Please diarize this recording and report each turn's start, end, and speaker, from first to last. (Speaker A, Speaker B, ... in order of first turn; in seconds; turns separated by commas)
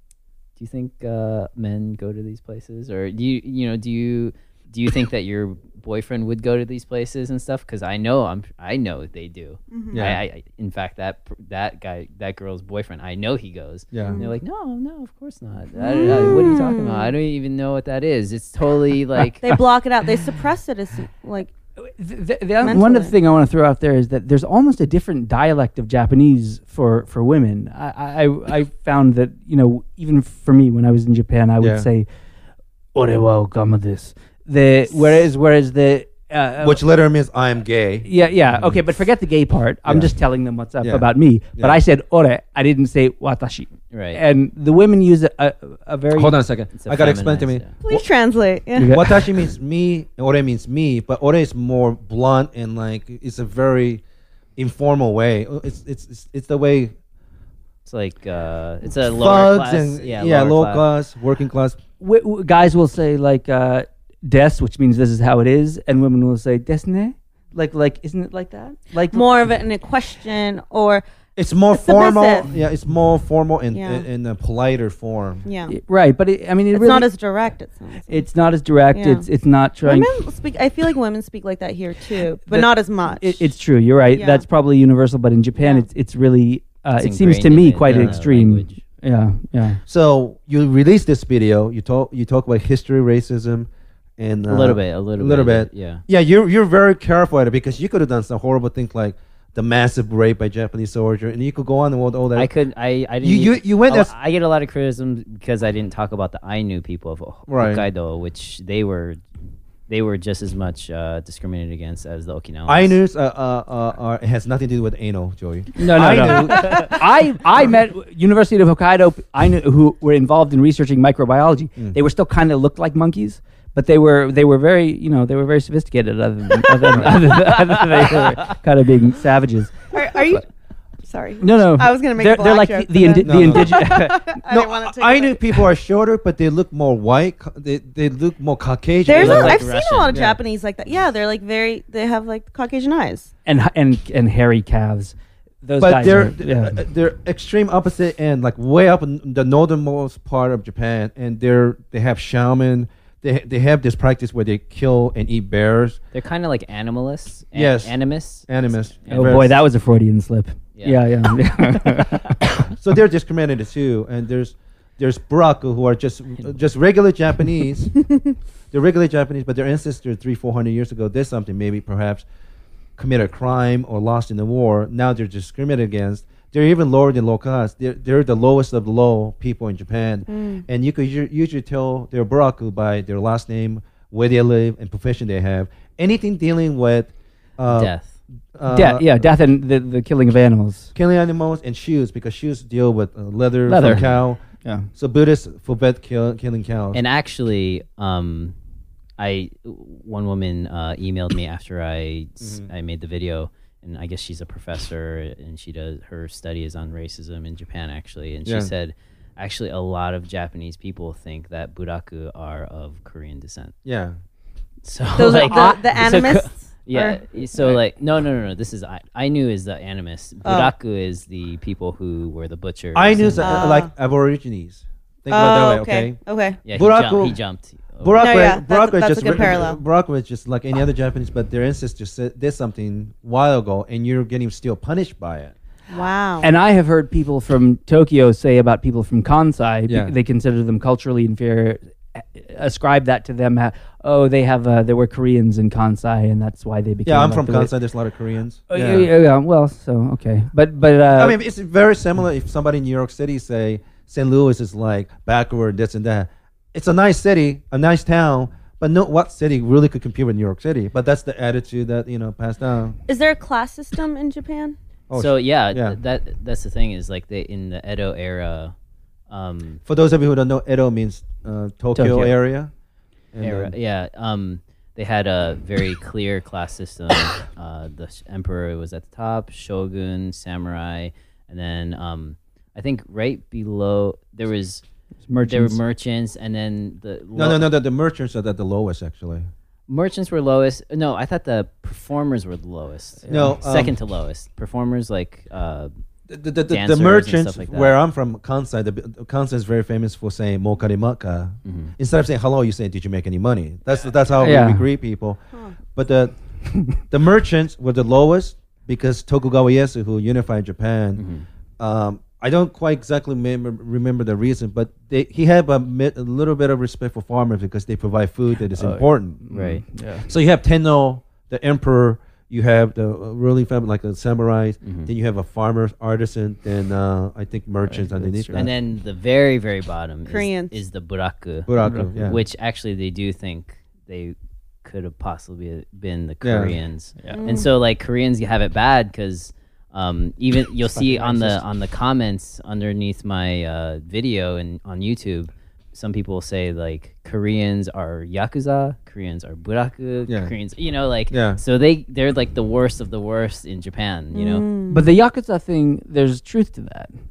Speaker A: 0.6-19.6, Speaker B: 9.7-10.0, Speaker C: 9.9-10.2, Speaker C: 13.9-14.2, Speaker B: 14.1-14.3, Speaker B: 15.7-17.1, Speaker B: 19.4-21.5, Speaker D: 22.0-32.1, Speaker B: 22.6-23.1, Speaker C: 31.6-31.9, Speaker D: 32.9-36.8, Speaker C: 36.6-38.7, Speaker D: 38.0-46.4, Speaker C: 39.9-40.1, Speaker A: 43.9-44.2, Speaker C: 46.1-48.0, Speaker A: 46.7-47.7, Speaker B: 47.8-49.0, Speaker D: 48.8-49.1, Speaker C: 48.8-54.0, Speaker C: 54.6-56.9, Speaker A: 57.9-60.8, Speaker C: 59.0-61.8, Speaker D: 62.0-69.2, Speaker B: 69.1-71.0, Speaker C: 71.3-75.4, Speaker B: 71.7-72.5, Speaker B: 73.7-74.0, Speaker B: 75.4-75.7, Speaker D: 75.7-77.1, Speaker B: 76.7-78.2, Speaker D: 78.1-80.1, Speaker B: 78.9-79.2, Speaker B: 79.8-83.4, Speaker D: 82.5-89.8, Speaker B: 84.1-84.4, Speaker B: 85.6-85.9, Speaker A: 87.0-88.8, Speaker C: 87.9-88.2, Speaker C: 89.9-102.5, Speaker A: 94.5-96.0, Speaker A: 102.3-109.2, Speaker C: 103.2-104.1, Speaker C: 107.5-107.8, Speaker A: 109.9-113.0, Speaker C: 112.7-116.9, Speaker D: 115.8-130.4, Speaker C: 126.9-127.2, Speaker B: 129.9-130.4, Speaker B: 131.0-135.4, Speaker D: 131.4-134.2, Speaker C: 133.2-140.4, Speaker B: 139.0-143.3, Speaker A: 139.1-140.2, Speaker D: 143.4-146.8, Speaker C: 145.8-156.0, Speaker A: 156.1-159.6, Speaker C: 157.5-159.5, Speaker D: 159.1-162.3, Speaker A: 160.8-161.2, Speaker C: 162.7-168.0, Speaker C: 168.7-172.2, Speaker C: 173.0-187.9, Speaker B: 180.3-180.6, Speaker A: 187.7-188.1, Speaker C: 188.5-189.2, Speaker D: 188.7-190.9, Speaker C: 190.9-197.0, Speaker D: 193.7-194.1, Speaker A: 193.8-194.2, Speaker D: 194.6-194.9, Speaker A: 196.9-198.5, Speaker A: 199.2-213.8, Speaker C: 202.4-202.7, Speaker C: 208.4-208.7, Speaker C: 213.8-214.2, Speaker A: 214.8-223.4, Speaker B: 215.2-217.8, Speaker D: 215.3-216.4, Speaker B: 220.4-220.7, Speaker C: 222.9-227.4, Speaker B: 223.4-223.9, Speaker B: 225.3-226.6, Speaker A: 226.6-228.2, Speaker C: 228.0-235.5, Speaker B: 228.2-229.8, Speaker B: 235.9-236.5, Speaker D: 236.4-247.7, Speaker C: 239.9-240.1, Speaker C: 247.1-249.1, Speaker D: 248.7-251.4, Speaker C: 251.1-263.0, Speaker B: 263.1-264.8, Speaker C: 265.1-266.0, Speaker A: 265.1-268.7, Speaker A: 269.3-269.8, Speaker C: 269.9-272.7, Speaker D: 271.9-272.4, Speaker C: 273.3-273.7, Speaker A: 273.4-284.8, Speaker D: 285.3-285.8, Speaker A: 285.4-287.7, Speaker C: 287.3-289.5, Speaker A: 289.9-295.9, Speaker D: 293.2-293.6, Speaker C: 293.3-293.9, Speaker C: 296.3-311.2, Speaker A: 296.7-297.9, Speaker A: 301.6-301.9, Speaker D: 304.4-304.8, Speaker A: 311.1-311.4, Speaker C: 311.8-328.7, Speaker D: 318.7-320.3, Speaker A: 319.5-319.8, Speaker A: 324.8-325.1, Speaker D: 327.9-328.7, Speaker A: 328.5-354.7, Speaker B: 330.3-330.7, Speaker C: 331.7-332.4, Speaker D: 331.8-332.1, Speaker C: 336.4-336.7, Speaker D: 337.2-337.5, Speaker B: 337.3-337.6, Speaker D: 340.9-341.6, Speaker C: 350.3-350.5, Speaker C: 351.3-351.6, Speaker B: 354.3-355.1, Speaker D: 354.9-357.1